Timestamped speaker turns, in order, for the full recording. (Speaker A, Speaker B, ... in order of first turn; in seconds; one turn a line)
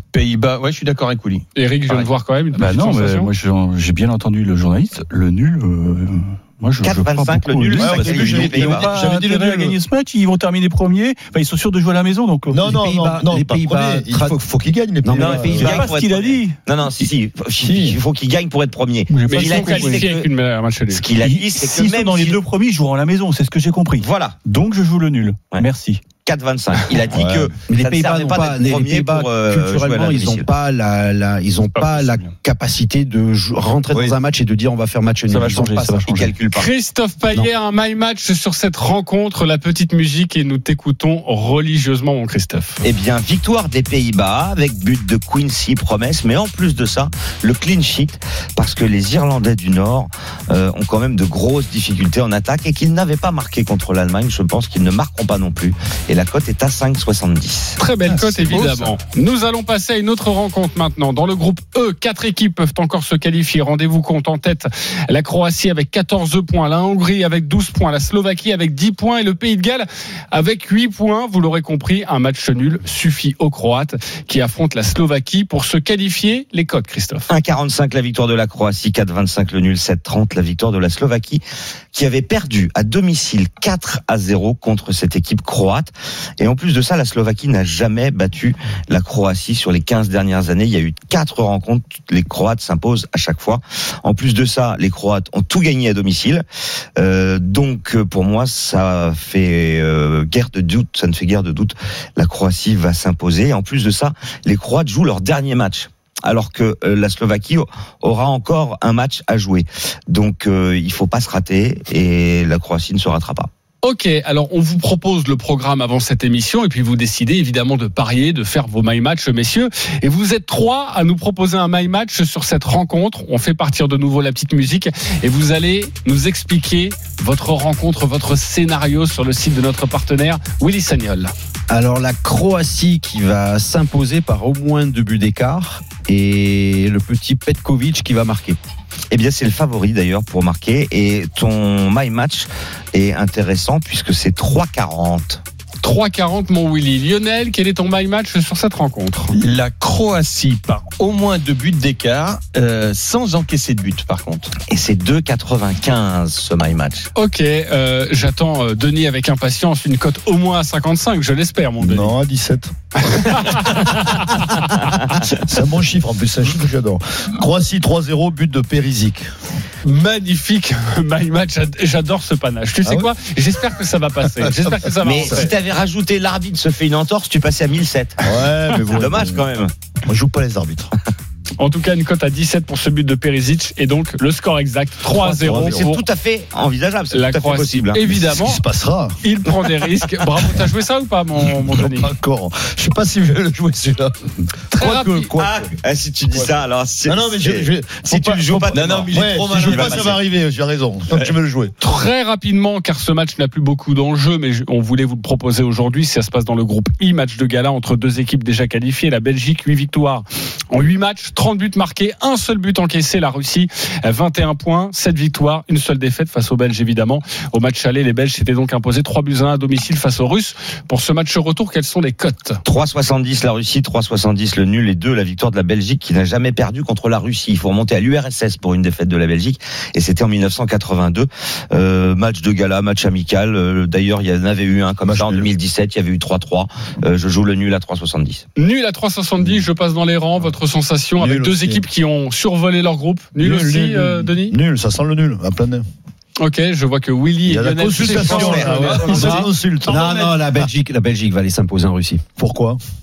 Speaker A: 0.1-2.1
Speaker B: 1.6-3.3
Speaker C: 2.5-12.8
Speaker D: 6.8-8.9
Speaker E: 7.8-9.7
Speaker E: 12.5-15.8
Speaker F: 12.7-14.4
Speaker F: 15.0-15.9
Speaker D: 15.1-20.3
Speaker C: 15.6-16.6
Speaker E: 17.6-18.0
Speaker C: 19.1-20.1
Speaker B: 19.3-21.0
Speaker D: 20.9-22.4
Speaker C: 21.2-26.0
Speaker D: 24.0-24.4
Speaker D: 26.2-30.5
Speaker E: 27.1-27.5
Speaker F: 27.7-36.3
Speaker C: 35.3-36.3
Speaker D: 36.1-36.7
Speaker B: 36.5-42.8
Speaker D: 42.8-57.8
Speaker B: 57.8-77.3
Speaker A: 58.1-58.9
Speaker D: 77.3-81.4
Speaker D: 81.9-96.4
Speaker D: 97.0-113.5
Speaker B: 113.8-131.3
Speaker F: 131.7-138.6
Speaker D: 139.1-145.4
Speaker B: 145.8-149.3
Speaker A: 149.3-154.5
Speaker D: 154.7-157.1
Speaker B: 157.2-162.1
Speaker E: 161.8-162.7
Speaker B: 163.0-164.9
Speaker E: 165.2-169.2
Speaker B: 169.8-175.5
Speaker E: 172.8-173.1
Speaker E: 174.4-175.5
Speaker D: 175.0-179.7
Speaker E: 178.2-179.4
Speaker E: 180.1-180.9
Speaker B: 181.6-186.0
Speaker E: 185.1-185.9
Speaker D: 185.4-188.1
Speaker B: 187.1-188.6
Speaker E: 188.1-189.2
Speaker B: 189.2-192.1
Speaker E: 191.8-195.7
Speaker B: 194.7-195.3
Speaker D: 195.4-200.2
Speaker E: 197.1-201.7
Speaker A: 198.7-200.2
Speaker B: 201.8-222.6
Speaker D: 222.6-238.4
Speaker E: 235.0-235.5
Speaker B: 238.6-244.6
Speaker E: 241.2-241.8
Speaker E: 243.4-245.8
Speaker B: 246.4-249.4
Speaker E: 247.4-250.0
Speaker D: 248.3-249.3
Speaker A: 248.7-250.6
Speaker F: 249.0-252.2
Speaker E: 252.4-252.8